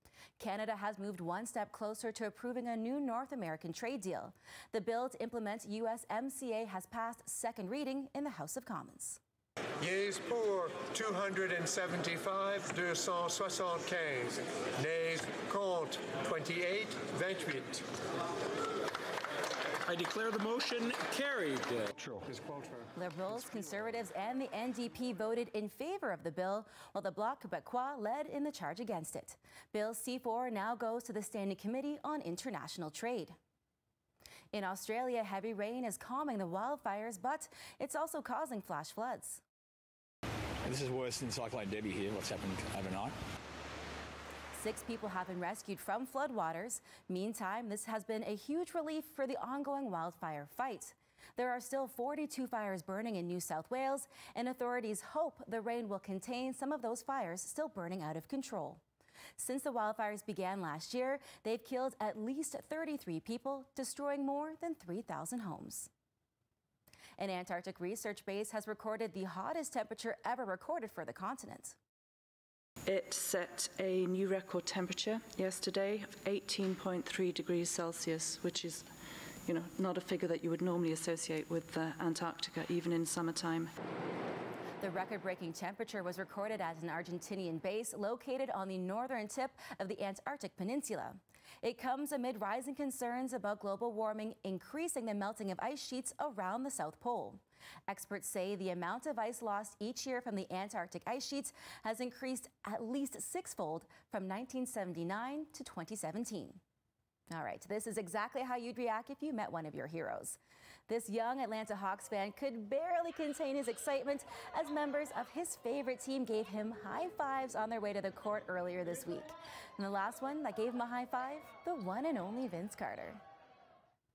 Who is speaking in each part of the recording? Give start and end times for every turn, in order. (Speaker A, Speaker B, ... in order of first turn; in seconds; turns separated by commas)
Speaker A: 0.4-9.2, Speaker B: 9.8-17.9, Speaker C: 19.9-21.9, Speaker B: 22.1-22.9, Speaker A: 22.9-33.4, Speaker A: 34.5-39.4, Speaker D: 40.6-43.1, Speaker A: 44.5-58.8, Speaker A: 59.4-65.9, Speaker A: 67.2-71.8, Speaker E: 72.8-78.9, Speaker E: 79.5-83.7, Speaker A: 84.8-106.6, Speaker A: 107.3-123.2